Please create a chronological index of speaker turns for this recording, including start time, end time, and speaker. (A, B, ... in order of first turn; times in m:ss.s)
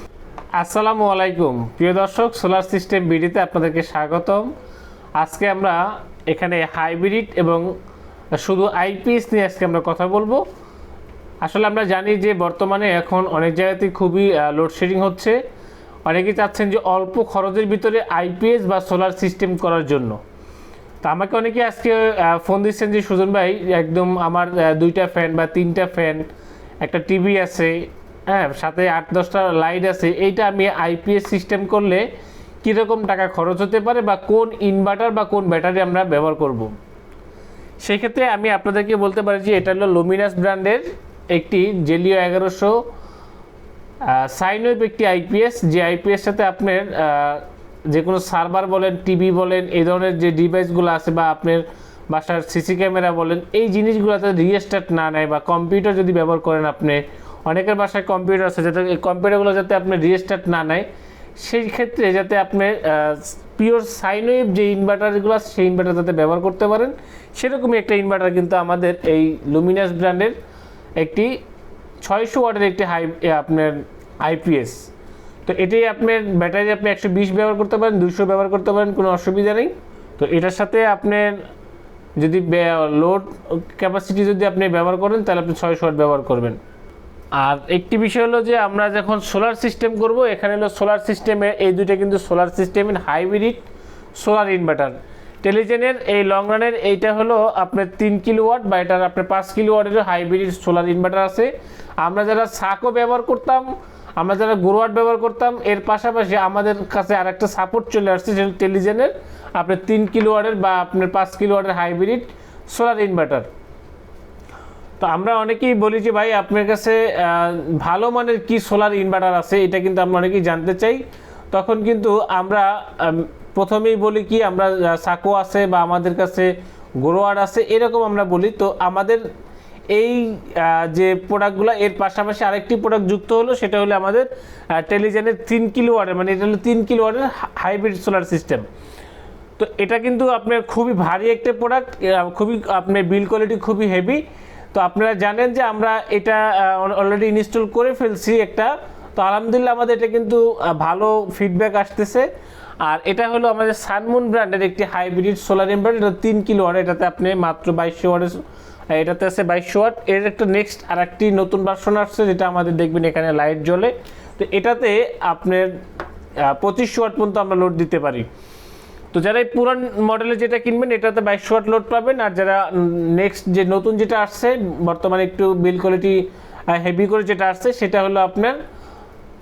0:00.6-0:04.5 A
0:05.2-0:07.7 A
0:08.4-0:10.4 A
0:11.4-0:15.4 A
0:16.1-0:20.2 A
0:21.0-0:26.2 A
0:26.8-0:32.0 A
0:32.6-0:36.7 A
0:37.8-0:42.8 A
0:44.0-1:00.9 A
1:01.4-1:10.4 A
1:11.0-1:11.4 A
1:12.0-1:14.8 A
1:15.4-1:21.4 A
1:22.2-1:26.6 A
1:27.4-1:33.6 A
1:34.2-1:53.5 A
1:55.0-2:09.2 A
2:09.9-2:18.6 A
2:19.6-2:24.2 A
2:24.7-2:32.3 A
2:32.8-2:45.7 A
2:46.4-2:48.3 A
2:49.1-2:58.6 A